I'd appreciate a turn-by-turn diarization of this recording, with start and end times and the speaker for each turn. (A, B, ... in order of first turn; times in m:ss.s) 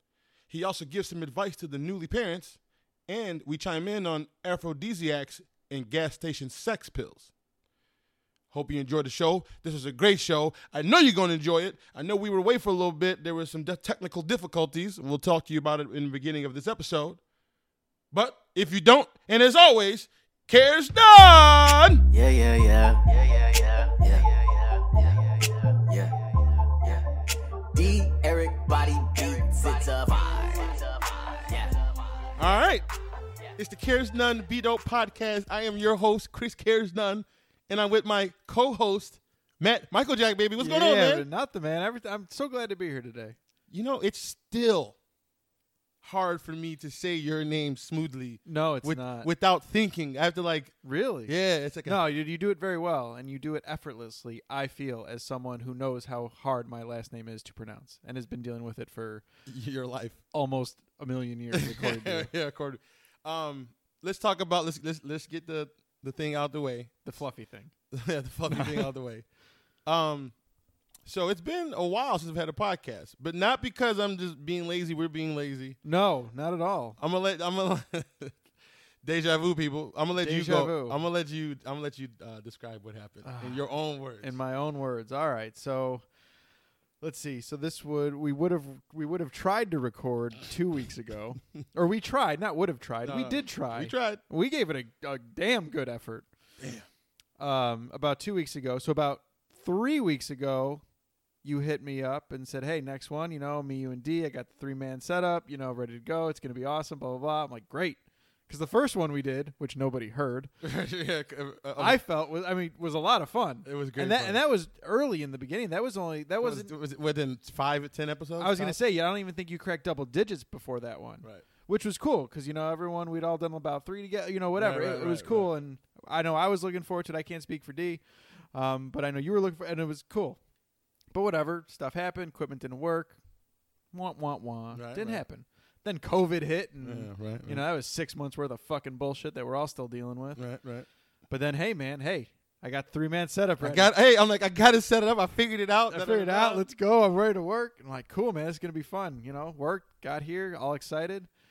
0:00.5-0:07.3 A
0:08.5-0:17.2 A
0:18.1-0:22.0 A
0:22.1-0:32.3 B
0:32.4-0:32.8 A
0:33.6-0:41.2 A
0:40.6-0:43.4 C
0:43.7-0:45.0 A
0:46.0-0:50.7 A
0:48.4-0:49.3 C
0:50.8-0:51.3 C
0:51.3-0:52.0 A
0:51.8-0:59.2 C
0:59.4-1:00.2 A
1:00.3-1:02.3 C
1:01.5-1:06.9 A
1:07.0-1:07.7 C
1:07.9-1:09.2 A
1:08.5-1:08.9 C
1:09.8-1:10.3 A
1:11.0-1:15.8 A
1:15.8-1:17.0 C
1:17.0-1:18.4 A
1:19.0-1:24.3 A
1:20.2-1:21.0 C
1:23.2-1:26.0 C
1:27.0-1:36.3 C
1:33.0-1:34.2 A
1:36.6-1:36.8 A
1:37.4-1:40.8 C
1:41.4-1:50.5 C
1:50.6-1:52.0 A
1:51.8-1:56.7 C
1:53.6-1:54.4 A
1:56.4-1:58.8 A
1:58.4-2:10.4 C
2:04.5-2:05.5 A
2:11.1-2:13.2 C
2:13.9-2:20.4 C
2:14.7-2:15.2 A
2:16.8-2:17.6 A
2:20.4-2:20.9 A
2:21.3-2:23.9 C
2:23.6-2:26.6 A
2:25.9-2:31.3 C